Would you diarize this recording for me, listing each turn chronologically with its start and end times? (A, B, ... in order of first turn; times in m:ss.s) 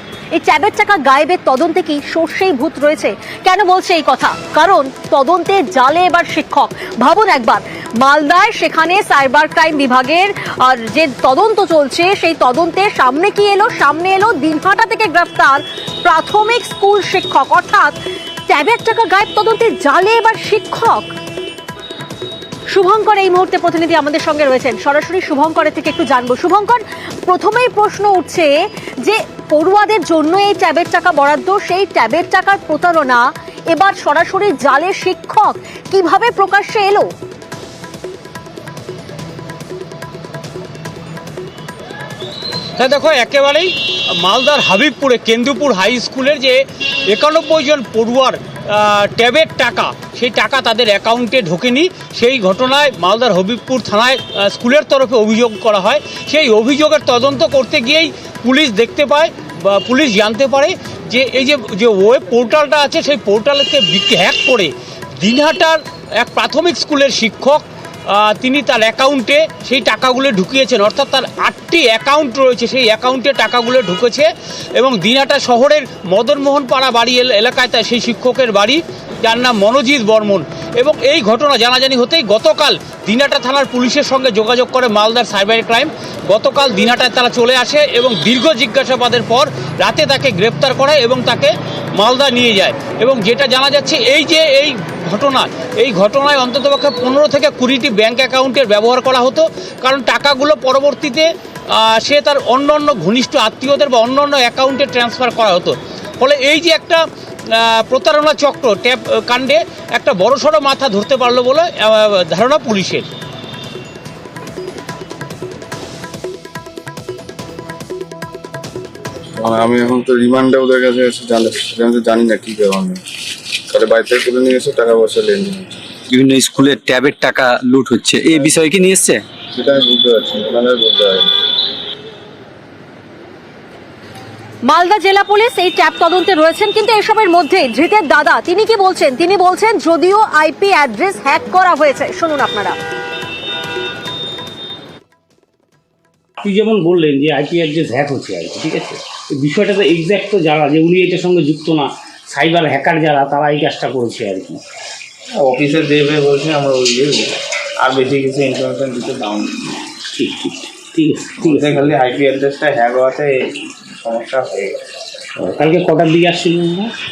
0:00.4-0:17.9 A
0:18.5-0:21.1 A
0:22.7-0:28.5 A
0:29.0-0:37.1 A
0:42.8-1:47.0 B
1:47.5-1:53.1 B
1:59.4-2:03.0 C
2:03.7-2:05.8 C
2:06.1-2:09.2 D
2:09.5-2:11.3 C
2:14.6-2:22.8 A
2:26.4-2:34.6 E
2:35.4-2:39.8 F
2:40.1-2:41.9 E
2:41.4-2:44.8 F
2:45.4-2:46.9 E